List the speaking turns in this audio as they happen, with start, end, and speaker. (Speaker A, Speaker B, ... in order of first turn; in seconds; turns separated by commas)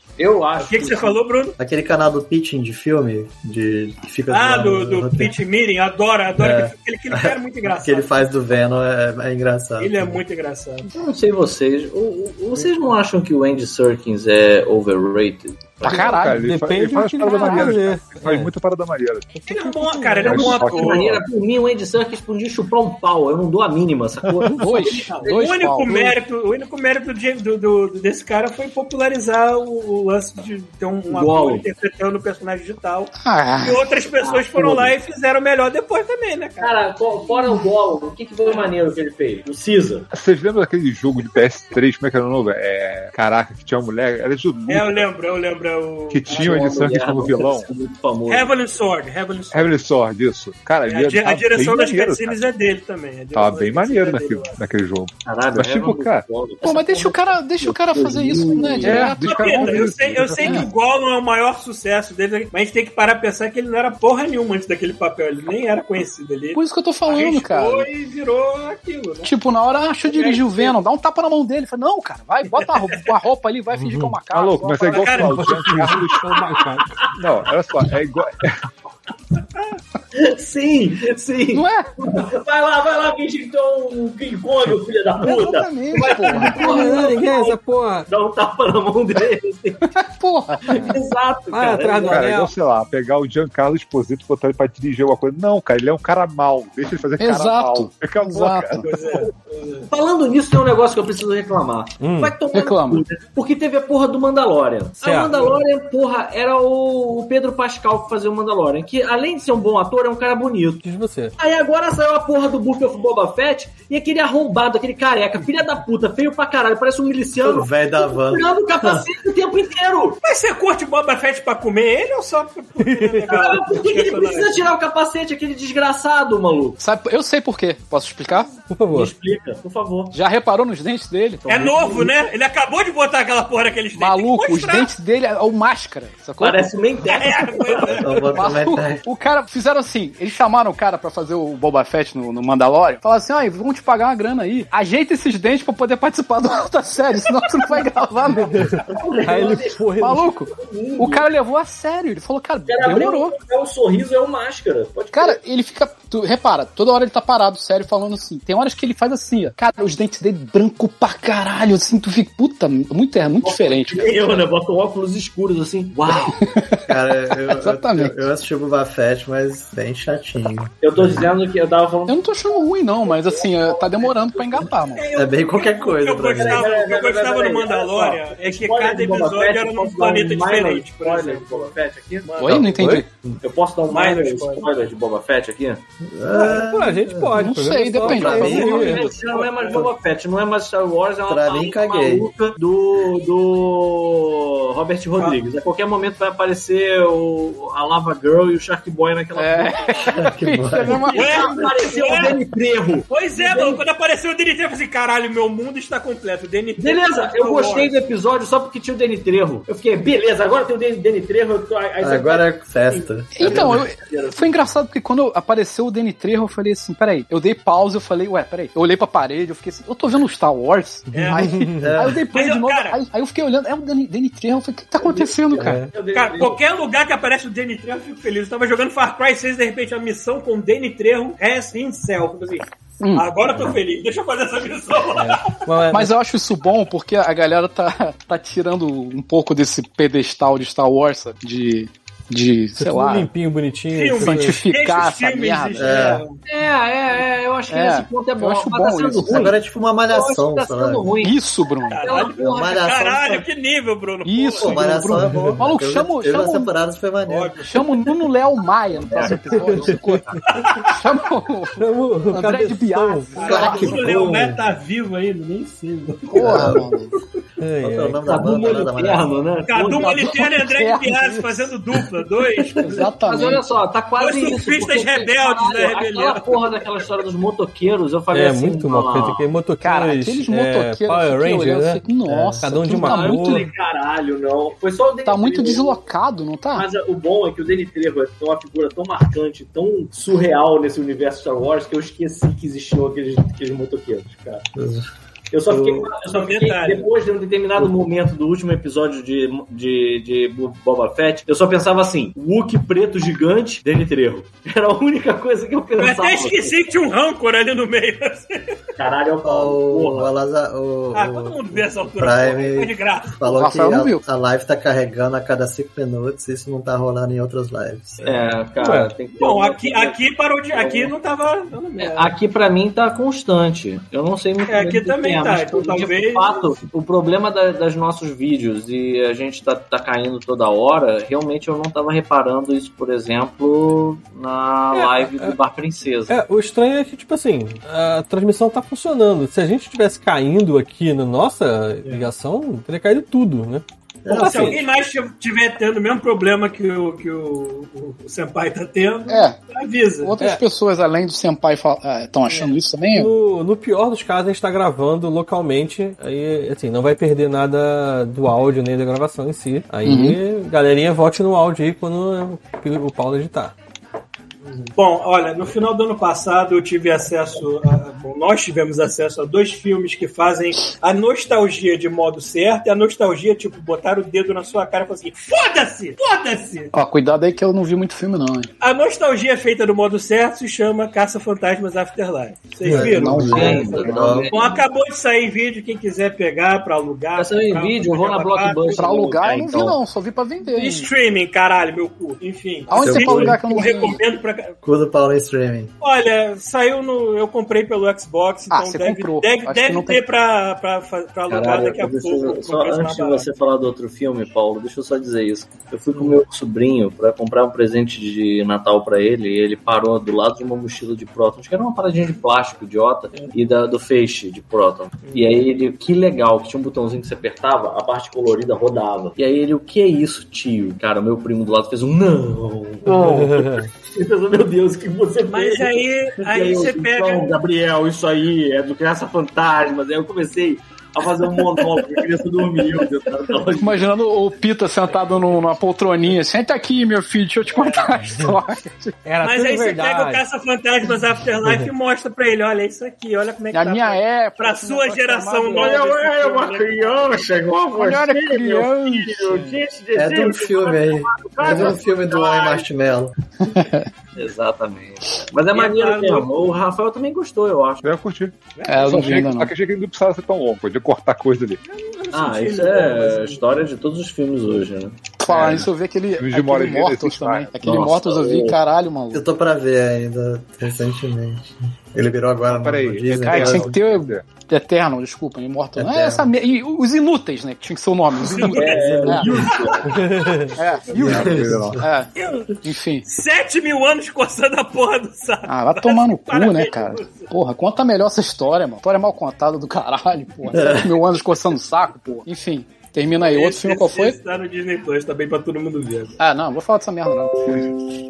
Speaker A: 0.2-1.2, Speaker B: 0.6-1.6, Speaker C: 1.6-5.3, Speaker B: 4.3-8.2, Speaker C: 6.4-10.2, Speaker B: 9.8-10.9, Speaker A: 10.9-16.3, Speaker D: 15.8-16.5, Speaker E: 15.9-19.5, Speaker F: 16.3-18.5, Speaker D: 17.3-17.7, Speaker B: 19.5-21.1, Speaker D: 19.6-20.4, Speaker A: 20.2-25.4, Speaker E: 20.2-21.2, Speaker D: 24.5-26.2, Speaker B: 24.6-37.6, Speaker A: 31.1-31.7, Speaker D: 33.2-33.9, Speaker A: 34.2-35.0, Speaker A: 36.6-40.1, Speaker E: 40.1-45.1, Speaker B: 44.7-46.9, Speaker E: 46.1-47.7, Speaker A: 46.3-48.6, Speaker B: 48.3-49.8, Speaker E: 49.5-52.5, Speaker B: 50.8-54.6, Speaker E: 53.3-56.2, Speaker A: 55.2-59.2, Speaker D: 56.6-60.7, Speaker E: 58.8-60.7, Speaker B: 59.1-69.3, Speaker D: 66.5-67.9, Speaker D: 69.2-75.2, Speaker B: 70.0-70.8, Speaker B: 72.5-73.1, Speaker F: 73.7-74.2, Speaker E: 74.3-76.4, Speaker B: 74.8-76.0, Speaker F: 75.2-76.8, Speaker E: 77.2-78.7, Speaker A: 80.1-90.0, Speaker D: 81.5-81.9, Speaker D: 85.2-87.0, Speaker F: 86.4-88.1, Speaker D: 89.9-91.0, Speaker A: 90.6-92.3, Speaker F: 91.5-92.5, Speaker E: 92.1-99.2, Speaker D: 97.2-98.8, Speaker B: 98.8-99.9, Speaker A: 99.9-110.8, Speaker F: 102.0-102.3, Speaker D: 102.5-103.0, Speaker F: 105.0-105.5, Speaker F: 110.8-111.3, Speaker A: 111.4-120.2, Speaker C: 117.4-119.0, Speaker B: 120.2-124.7, Speaker F: 122.8-123.2, Speaker A: 123.3-126.8, Speaker D: 126.8-128.5, Speaker F: 128.7-129.1, Speaker A: 128.9-130.2, Speaker D: 130.1-131.5, Speaker A: 131.4-132.1, Speaker B: 131.5-134.9, Speaker D: 134.0-136.8, Speaker A: 136.4-138.0, Speaker B: 137.1-138.4, Speaker C: 138.0-139.0, Speaker D: 138.3-148.9, Speaker F: 148.5-150.3, Speaker A: 148.9-149.8, Speaker D: 150.0-153.3, Speaker A: 150.5-151.3, Speaker A: 152.7-155.4, Speaker D: 155.1-164.4, Speaker A: 163.4-166.5, Speaker D: 166.1-168.2, Speaker C: 166.8-171.3, Speaker A: 170.8-175.0, Speaker D: 172.1-175.0, Speaker B: 174.8-181.8, Speaker C: 175.2-176.7, Speaker A: 176.4-185.8, Speaker B: 182.3-182.8, Speaker D: 182.4-183.1, Speaker F: 182.8-183.1, Speaker B: 183.9-184.7, Speaker C: 186.0-188.7, Speaker F: 186.3-189.1, Speaker D: 187.4-189.2, Speaker A: 188.1-200.2, Speaker B: 189.0-189.9, Speaker C: 191.3-192.3, Speaker D: 199.4-201.7, Speaker C: 200.1-201.2, Speaker A: 200.8-203.8, Speaker B: 201.1-202.4, Speaker B: 203.1-208.0, Speaker A: 206.8-214.6, Speaker C: 212.0-213.8, Speaker D: 213.3-225.8, Speaker F: 221.1-221.9, Speaker B: 221.1-221.6, Speaker C: 221.8-222.2, Speaker B: 222.3-223.0, Speaker A: 225.0-226.6, Speaker F: 225.6-225.9, Speaker B: 226.1-235.6, Speaker D: 233.0-233.3, Speaker F: 235.1-236.1, Speaker D: 235.9-243.3, Speaker F: 242.8-244.6, Speaker B: 243.9-246.4, Speaker D: 244.2-246.2, Speaker C: 245.8-246.2, Speaker A: 246.5-251.4, Speaker D: 247.7-249.5, Speaker C: 249.2-251.1, Speaker D: 251.2-252.1, Speaker B: 251.9-255.0, Speaker A: 251.9-253.0, Speaker C: 252.5-253.4, Speaker D: 254.2-256.7, Speaker C: 254.6-257.6, Speaker B: 257.3-258.2, Speaker D: 257.7-264.3, Speaker A: 258.9-260.4, Speaker F: 259.6-260.2, Speaker B: 260.5-260.9, Speaker F: 261.8-263.4, Speaker B: 263.4-266.9, Speaker C: 263.4-264.6, Speaker D: 266.3-267.1, Speaker C: 266.4-266.9, Speaker F: 267.6-268.2, Speaker C: 267.8-269.3, Speaker A: 268.2-270.4, Speaker B: 269.7-273.1, Speaker D: 270.0-271.7, Speaker D: 272.8-273.6, Speaker A: 273.2-279.4, Speaker B: 274.2-277.0, Speaker F: 278.3-282.0, Speaker D: 279.8-283.7, Speaker C: 282.3-282.7, Speaker F: 282.6-283.7, Speaker A: 282.9-286.0, Speaker D: 285.3-286.9, Speaker A: 286.7-294.7, Speaker C: 294.8-295.1, Speaker A: 295.5-306.8, Speaker C: 295.7-296.1, Speaker B: 296.2-297.1, Speaker B: 306.0-308.7, Speaker A: 309.0-310.3, Speaker C: 309.4-318.5, Speaker B: 311.1-313.4, Speaker D: 313.5-314.2, Speaker A: 318.2-320.2, Speaker F: 318.8-319.1, Speaker B: 319.3-322.3, Speaker A: 320.7-321.1, Speaker A: 322.0-336.4, Speaker B: 324.7-326.7, Speaker F: 334.9-335.6, Speaker F: 336.3-344.8, Speaker C: 344.2-344.8, Speaker B: 344.4-350.4, Speaker A: 344.4-344.8, Speaker D: 349.3-349.6, Speaker D: 350.2-353.3, Speaker F: 353.1-363.7, Speaker D: 360.1-360.4, Speaker B: 364.7-376.9, Speaker D: 376.9-378.7, Speaker B: 378.8-389.4, Speaker D: 382.9-384.0, Speaker C: 382.9-384.5, Speaker A: 383.4-384.9, Speaker A: 387.4-390.0, Speaker D: 389.0-391.1, Speaker B: 390.6-394.8, Speaker D: 392.9-394.2, Speaker C: 393.0-393.8, Speaker C: 394.8-395.9, Speaker B: 396.0-403.5, Speaker D: 398.7-400.2, Speaker A: 401.5-434.1, Speaker B: 406.1-406.4, Speaker B: 415.2-415.6, Speaker F: 423.1-423.9, Speaker B: 425.5-427.6, Speaker D: 433.8-439.1, Speaker B: 437.7-438.2, Speaker F: 439.2-440.4, Speaker B: 439.4-447.5, Speaker D: 443.7-446.2, Speaker A: 445.7-452.8, Speaker D: 447.9-449.7, Speaker C: 450.1-453.3, Speaker B: 451.7-452.8, Speaker D: 453.7-454.1, Speaker A: 454.4-458.1, Speaker B: 455.7-456.6, Speaker E: 458.0-458.6, Speaker B: 458.8-459.5, Speaker D: 458.9-459.7, Speaker E: 459.1-461.8, Speaker B: 461.8-463.9, Speaker A: 462.3-465.1, Speaker D: 465.4-469.4, Speaker E: 465.5-467.8, Speaker A: 467.8-468.8, Speaker C: 469.3-473.9, Speaker E: 472.7-474.5, Speaker D: 473.5-479.5, Speaker C: 476.0-476.5, Speaker B: 478.4-480.0, Speaker A: 478.6-480.2, Speaker C: 478.9-479.8, Speaker F: 480.1-480.8, Speaker D: 480.8-482.3, Speaker C: 481.1-482.0, Speaker E: 481.1-482.0, Speaker D: 482.8-483.2, Speaker B: 483.3-487.5, Speaker D: 485.7-494.4, Speaker C: 490.7-491.2, Speaker B: 493.4-496.4, Speaker D: 496.4-497.9